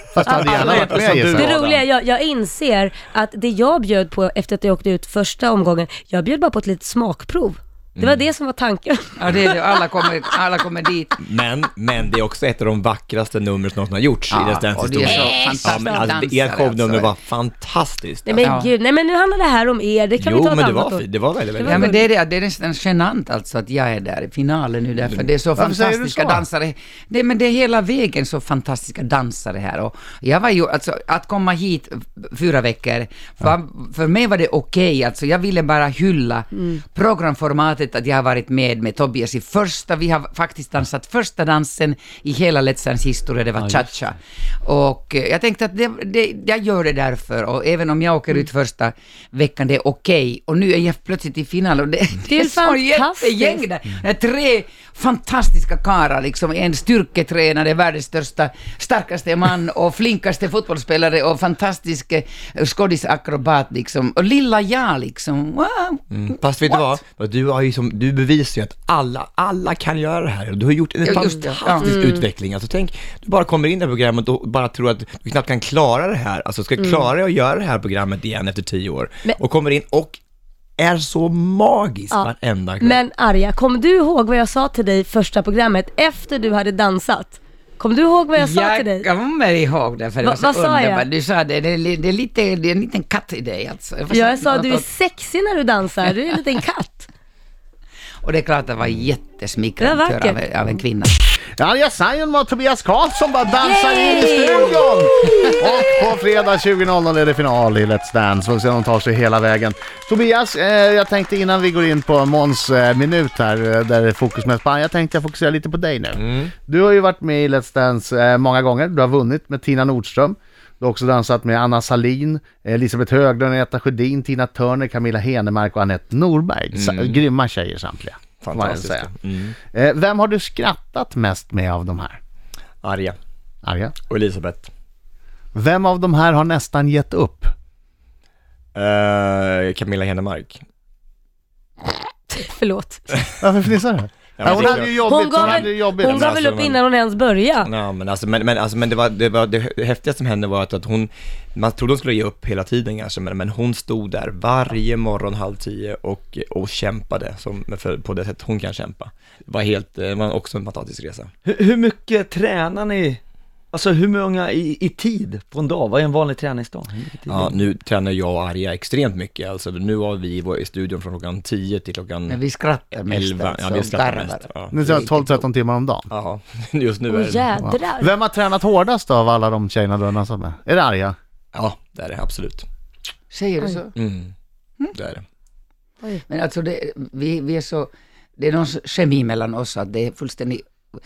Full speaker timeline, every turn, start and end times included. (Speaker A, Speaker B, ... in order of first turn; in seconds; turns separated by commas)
Speaker A: 0.1-1.5, Speaker B: 0.2-1.7, Speaker C: 0.3-0.6, Speaker D: 0.5-1.8, Speaker C: 1.4-9.1, Speaker B: 8.0-8.2, Speaker E: 9.2-11.2, Speaker B: 11.2-18.5, Speaker E: 14.3-17.1, Speaker C: 15.1-15.9, Speaker C: 18.3-21.0, Speaker E: 18.4-18.7, Speaker B: 20.2-22.0, Speaker C: 21.6-22.0, Speaker E: 21.6-66.0, Speaker A: 25.6-26.4, Speaker D: 43.6-43.9, Speaker C: 52.3-53.6, Speaker B: 66.1-80.2, Speaker E: 71.0-72.0, Speaker B: 80.8-83.0, Speaker C: 82.8-89.0, Speaker E: 88.3-94.8, Speaker C: 90.2-91.1, Speaker C: 94.1-97.1, Speaker E: 98.2-101.1, Speaker C: 99.8-100.4, Speaker A: 101.6-129.1, Speaker C: 103.7-104.8, Speaker B: 116.2-116.5, Speaker B: 126.7-127.2, Speaker B: 128.4-129.6, Speaker A: 129.7-132.2, Speaker B: 132.8-133.2, Speaker A: 133.6-133.9, Speaker B: 134.1-134.7, Speaker A: 135.6-137.5, Speaker B: 138.8-140.6, Speaker C: 142.3-143.0, Speaker A: 143.4-146.3, Speaker B: 144.4-146.8, Speaker C: 144.9-147.7, Speaker B: 147.7-161.3, Speaker D: 161.4-163.2, Speaker D: 163.7-167.5, Speaker B: 167.3-172.4, Speaker E: 172.3-175.4, Speaker B: 172.9-174.8, Speaker A: 174.7-176.1, Speaker B: 176.1-177.5, Speaker C: 177.1-178.1, Speaker A: 177.6-181.2, Speaker B: 181.5-182.7, Speaker E: 183.3-183.9, Speaker B: 183.9-184.3, Speaker B: 184.9-185.2, Speaker E: 186.3-190.7